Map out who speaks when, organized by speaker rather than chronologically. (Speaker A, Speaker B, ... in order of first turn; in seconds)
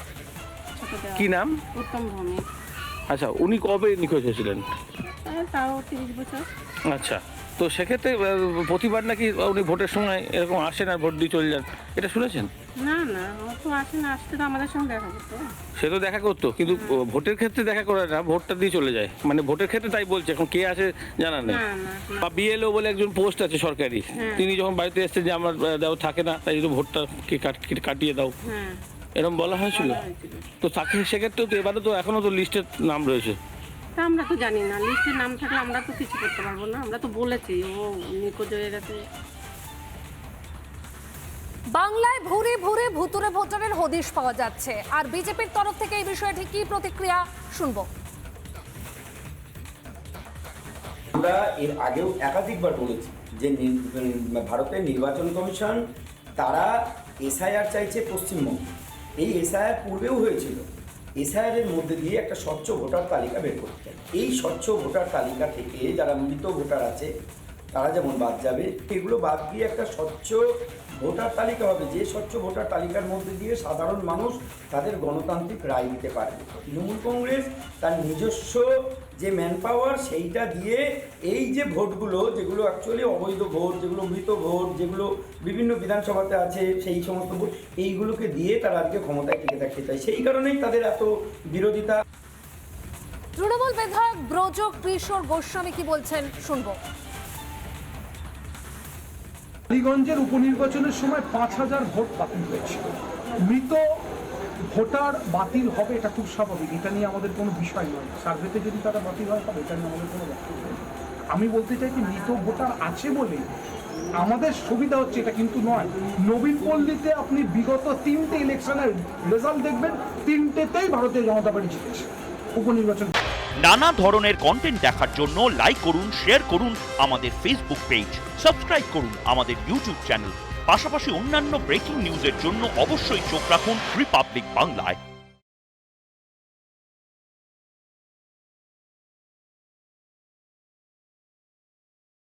Speaker A: 0.8-2.4, 5.1-6.5, 12.8-15.5, 16.7-17.0, 21.4-22.4, 24.1-24.5, 28.4-28.8, 29.6-30.5, 34.0-39.0
Speaker B: 1.2-1.6, 3.1-4.6, 6.9-12.5, 15.8-21.6, 22.2-28.3, 29.2-30.0, 30.6-33.4
Speaker C: 41.7-47.9, 93.4-96.8
Speaker D: 51.1-55.8, 56.4-56.7, 57.2-58.6, 59.2-60.6, 61.2-67.1, 67.7-70.4, 71.0-78.7, 79.2-92.0
Speaker E: 99.7-104.0, 104.7-110.8, 111.3-113.5, 114.2-123.1
Speaker F: 123.6-135.0